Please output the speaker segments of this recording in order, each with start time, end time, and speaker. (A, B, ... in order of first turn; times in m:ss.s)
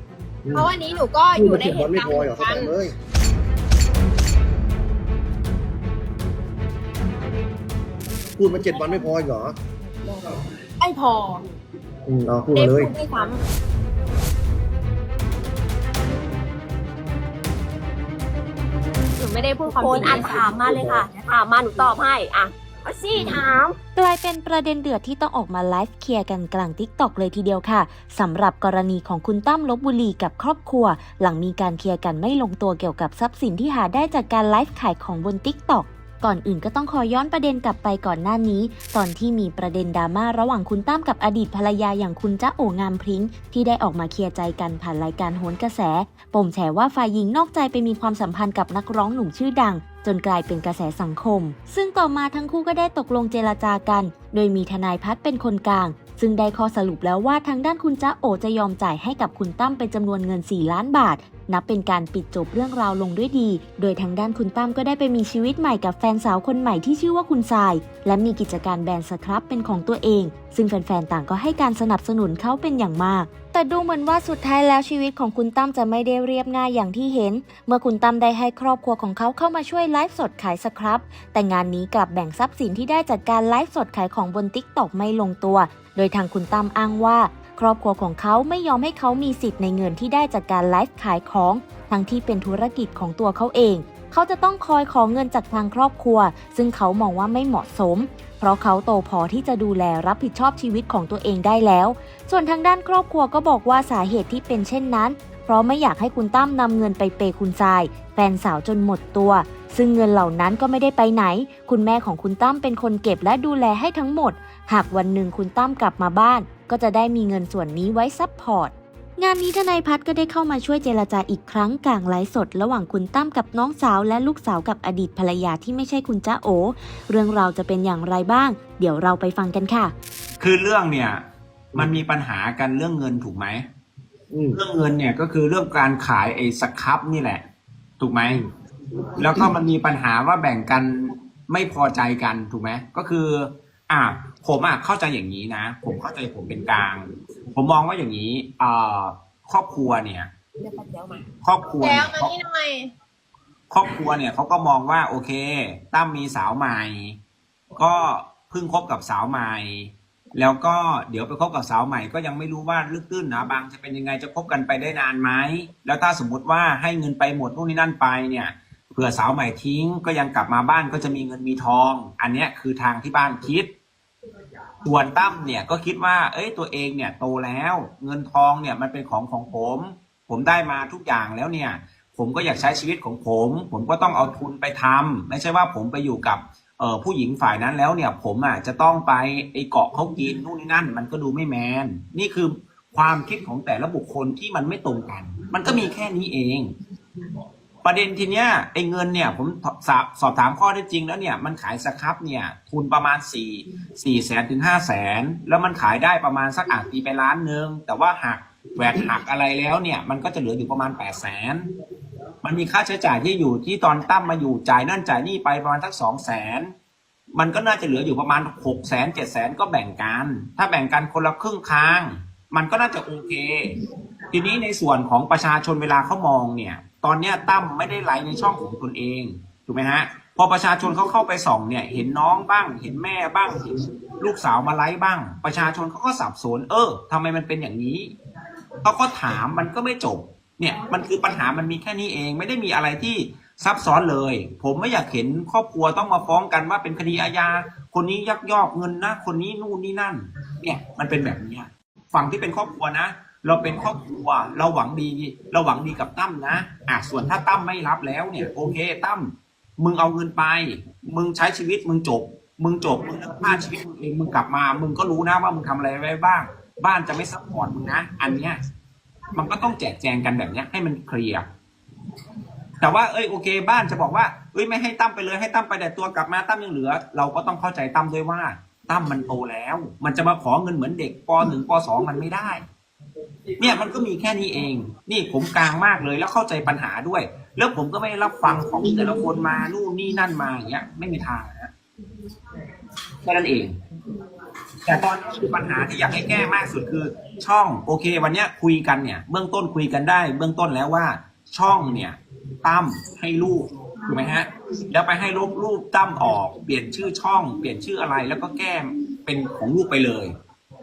0:00.5-0:02.7 A
0:01.4-0:02.9 B
0:08.4-0:09.6 B
0:10.8-0:11.4 A
0:12.1-0:12.9 B
0:12.5-0:13.4 A
0:19.2-0:20.5 A
0:19.6-0:23.8 C
0:20.7-0:21.0 B
0:24.0-2:09.9 D
2:10.4-2:11.2 E
2:11.7-2:13.7 E
2:14.3-2:14.6 B
2:14.5-2:17.4 E
2:18.0-2:18.4 E
2:19.2-2:30.3 E
2:30.7-2:31.2 C
2:31.4-2:32.4 E
2:31.8-2:32.9 A
2:33.7-2:37.2 E
2:37.8-2:53.7 E
2:54.8-3:16.7 E
3:17.8-3:31.6 E
3:32.4-3:36.7 E
3:37.3-3:43.7 E
3:44.3-3:58.1 E
3:58.8-4:28.6 E
4:29.4-4:31.5 E
4:32.8-4:42.7 E
4:43.6-4:51.7 E
4:53.2-4:53.8 E
4:54.8-5:10.4 E